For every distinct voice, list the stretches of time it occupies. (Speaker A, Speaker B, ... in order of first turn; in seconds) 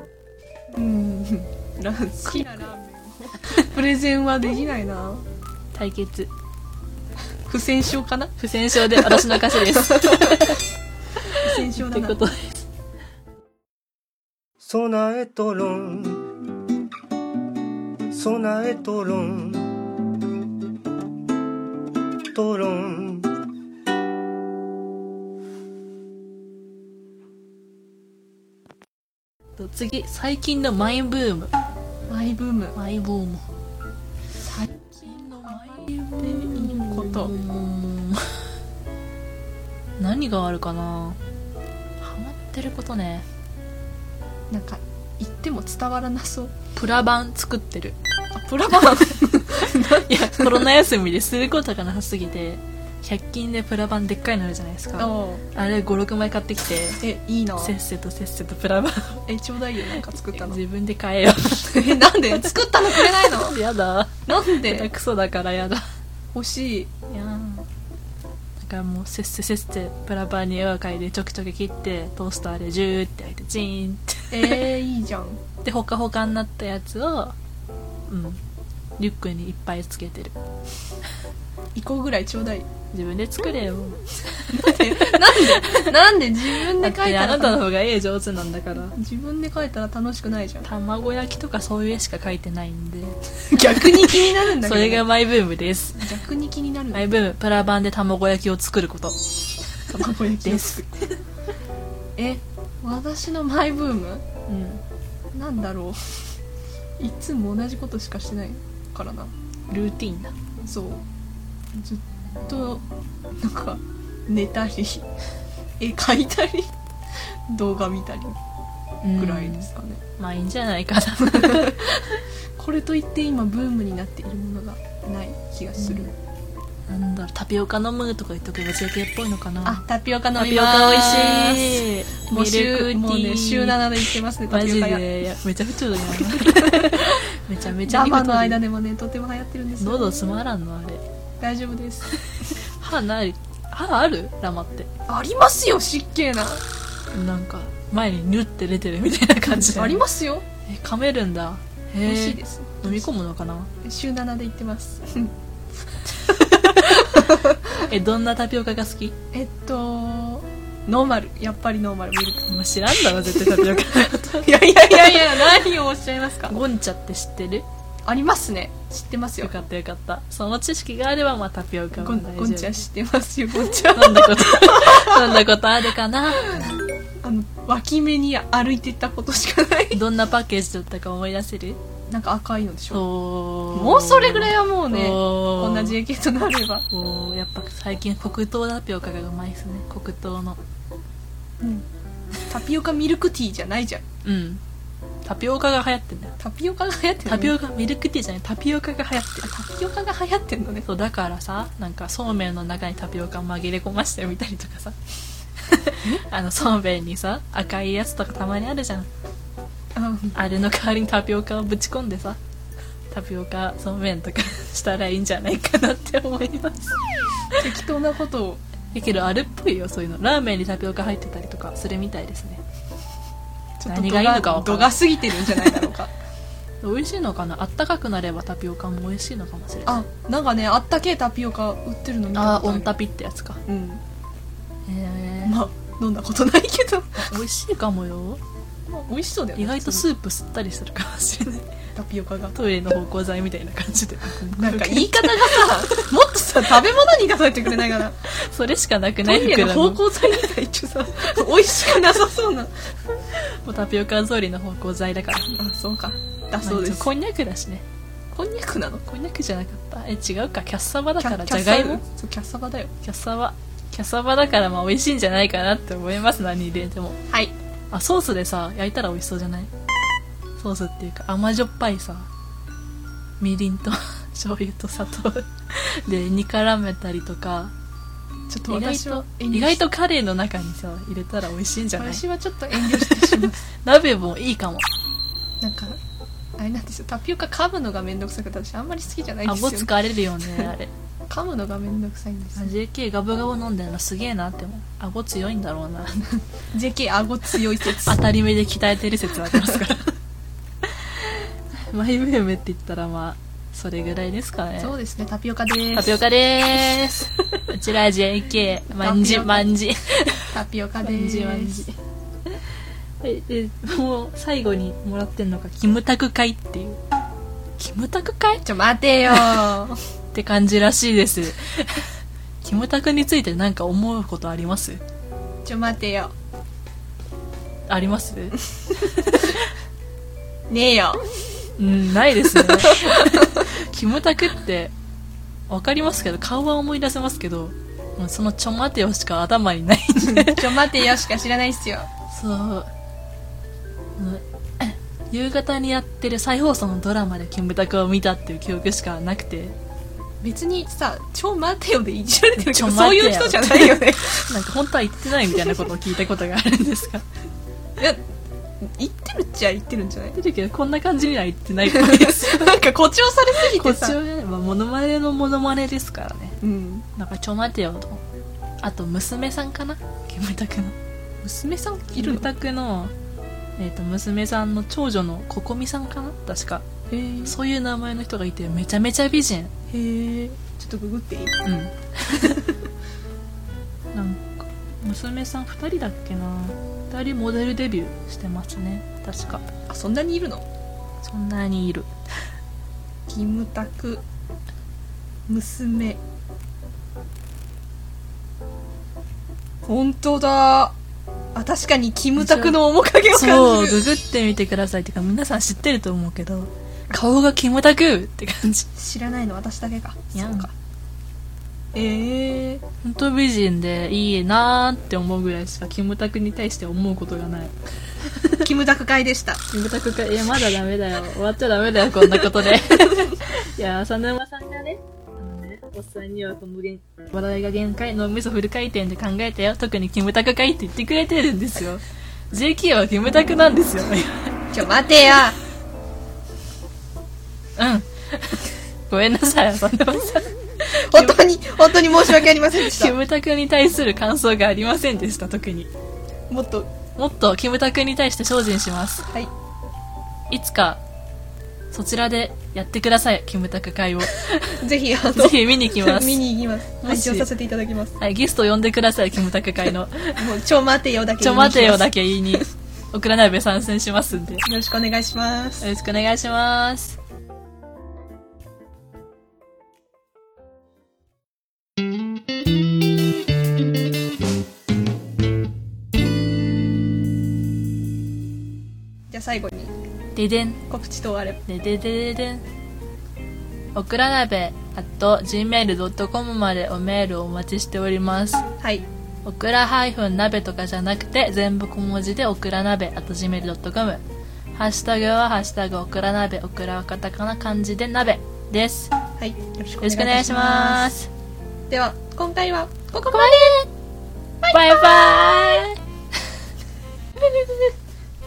Speaker A: 0.7-5.3, 7.5-10.6, 11.3-12.2, 32.1-32.8, 34.4-37.4, 44.5-46.5, 48.4-50.7, 55.0-55.4, 57.0-57.8, 59.3-60.6, 61.7-63.6, 64.3-64.9, 66.3-66.9, 74.3-75.4, 81.8-82.7, 84.5-87.6, 88.8-90.7, 93.5-95.1, 96.0-97.1, 99.9-101.0, 102.2-104.3, 105.3-106.0, 107.0-109.3, 110.6-111.0, 111.7-112.8, 113.4-115.1, 115.8-116.7, 117.5-118.4, 119.2-120.0, 121.3-121.8, 122.6-126.1, 129.7-135.1, 136.4-137.2, 137.9-140.1, 141.4-142.2, 145.1-146.6, 149.5-150.4, 152.1-153.1, 153.8-155.3, 156.1-157.8, 159.3-162.5, 163.2-166.6, 168.1-169.5, 172.0-175.4, 177.2-180.0, 182.1-183.1, 183.7-186.9, 192.4-194.0, 196.4-197.5, 199.4-200.9, 209.9-210.4, 217.6-218.6, 223.8-226.1, 229.9-233.0, 233.7-234.0, 235.4-237.4, 238.9-240.1, 241.9-242.6, 244.6-248.2, 249.2-252.8, 255.5-257.1, 258.3-259.1, 261.2-262.9, 278.5-279.8, 282.0-283.6, 285.6-286.0, 286.6-289.9, 291.3-292.7, 296.7-298.2, 304.8-306.2, 308.9-309.7, 310.5-311.8, 318.6-320.0, 325.6-326.3, 330.7-331.3, 332.7-333.6, 340.2-342.1, 350.4-354.5, 358.8-360.4, 361.9-364.2, 366.6-367.1, 371.4-372.5, 377.1-377.6, 379.9-381.6, 382.3-382.8, 389.9-390.7, 393.3-394.2, 395.5-396.2, 399.9-400.9, 401.6-404.0, 409.0-410.7, 411.9-412.8, 418.6-419.6, 434.7-435.6, 441.1-443.1, 446.5-446.9, 454.8-458.2, 460.4-462.1, 464.5-465.9, 479.3-479.9, 480.9-481.6, 488.8-489.1, 499.4-501.1, 501.9-503.8, 504.6-505.6
Speaker B: 2.2-2.7, 5.7-6.3, 8.4-10.6, 11.2-12.7, 29.6-31.5, 32.8-33.5, 35.0-38.5, 40.0-41.2, 42.0-43.3, 46.8-48.0, 49.6-57.0, 57.6-59.2, 60.3-65.8, 67.1-67.7, 68.6-74.7, 75.6-77.4, 78.1-78.4, 79.0-80.4, 82.9-85.9, 86.7-88.9, 90.7-96.0, 96.9-99.3, 100.4-101.2, 104.5-104.8, 109.7-110.3, 119.0-122.2, 125.8-126.1, 126.9-133.9, 134.5-138.6, 139.8-141.0, 142.7-144.9, 147.1-150.0, 150.7-153.7, 156.7-157.0, 157.8-159.2, 162.5-165.4, 166.5-167.7, 169.4-172.7, 173.9-176.8, 179.9-181.8, 182.9-186.0, 186.9-190.6, 194.2-194.6, 195.2-196.3, 197.2-199.5, 200.9-205.0, 205.6-209.1, 210.3-212.4, 213.1-217.0, 218.9-222.6, 223.9-225.8, 226.8-230.0, 232.3-233.6, 234.9-235.6, 237.3-238.4, 239.6-241.7, 242.6-246.1, 248.2-250.2, 253.3-255.5, 256.6-257.8, 259.1-262.0, 263.0-267.2, 267.9-269.7, 270.6-272.3, 273.4-277.7, 278.7-284.9, 289.4-290.9, 292.6-296.3, 298.1-300.2, 300.9-304.9, 305.9-311.9, 312.5-317.0, 317.8-318.6, 319.3-319.7, 320.3-322.1, 322.6-325.0, 327.9-329.7, 331.8-334.9, 335.7-340.9, 342.3-342.9, 344.2-349.8, 352.6-357.3, 360.4-362.8, 363.6-366.6, 367.2-368.2, 368.8-371.0, 372.1-373.1, 373.8-376.9, 377.4-379.7, 381.6-382.6, 384.1-389.7, 391.2-392.1, 402.4-408.9, 410.3-410.7, 413.0-418.7, 419.7-434.6, 437.8-441.4, 442.3-445.9, 447.2-449.3, 450.5-451.0, 451.9-456.4, 457.0-457.5, 458.2-460.5, 461.4-464.6, 465.8-467.2, 480.4-480.8, 481.7-482.6, 483.9-488.6, 489.4-494.2, 494.8-499.1, 500.0-501.3, 503.3-503.9, 504.7-506.0, 507.4-507.9
Speaker C: 14.6-16.3, 18.1-19.7, 22.3-23.3